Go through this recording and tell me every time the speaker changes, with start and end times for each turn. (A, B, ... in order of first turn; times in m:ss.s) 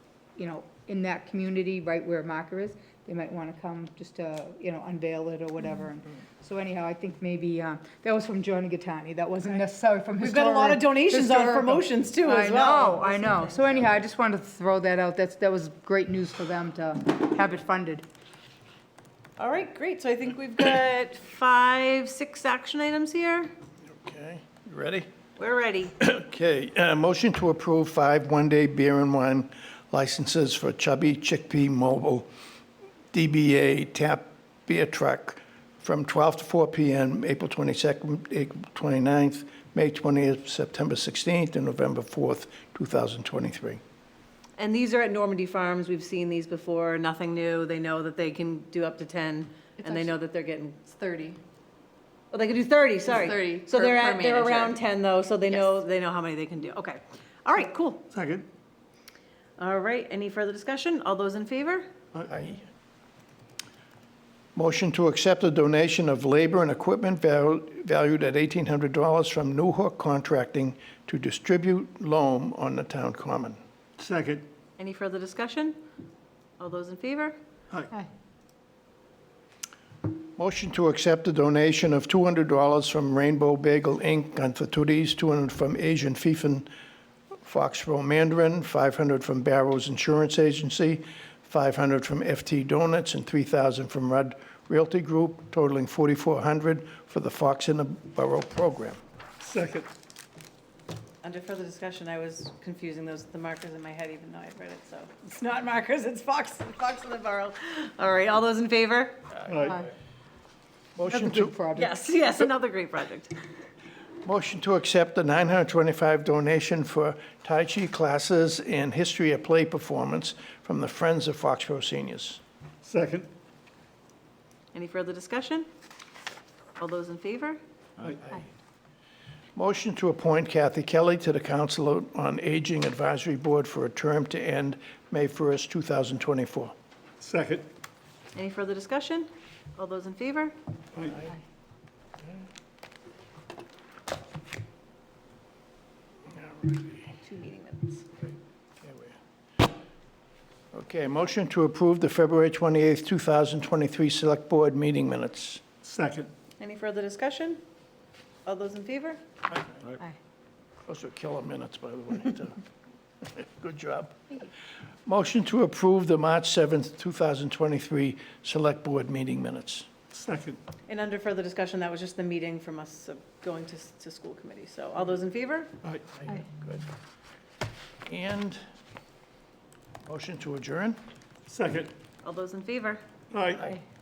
0:00.4-0:18.0 A
0:10.2-0:13.5 B
0:19.4-0:23.5 B
0:23.9-0:25.1 C
0:25.4-0:25.9 B
0:26.0-0:32.3 C
0:33.1-0:43.8 C
0:44.6-0:50.8 B
0:49.8-0:50.1 D
0:50.9-0:51.4 D
0:52.3-0:58.0 B
0:53.0-0:54.8 D
0:58.1-0:58.4 E
0:59.6-1:01.9 B
1:02.3-1:02.6 C
1:04.6-1:13.6 C
1:14.0-1:14.5 E
1:14.8-1:15.8 B
1:16.6-1:17.4 B
1:20.4-1:26.7 C
1:27.4-1:39.0 C
1:39.4-1:39.9 E
1:41.2-1:49.4 B
1:49.5-1:49.8 E
1:51.0-1:51.5 C
1:51.1-1:51.9 A
1:51.8-1:53.4 B
1:54.2-2:02.4 C
2:02.8-2:03.3 E
2:04.7-2:05.7 B
2:06.8-2:07.6 B
2:08.0-2:08.3 E
2:09.6-2:16.7 C
2:17.2-2:17.7 E
2:18.3-2:20.6 B
2:21.0-2:21.2 E
2:26.3-2:27.2 C
2:27.2-2:28.0 B
2:28.2-2:29.2 C
2:30.7-2:35.6 C
2:35.8-2:36.3 E
2:36.6-2:37.6 B
2:38.4-2:39.2 B
2:39.6-2:39.8 C
2:40.9-2:42.6 C
2:43.2-2:44.5 C
2:45.1-2:49.9 C
2:50.1-2:50.6 E
2:50.9-2:55.7 B
2:56.1-2:56.9 C
2:58.1-2:58.6 C
3:00.1-3:01.0 C
3:01.5-3:01.9 E
3:02.2-3:03.0 B
3:03.3-3:03.8 E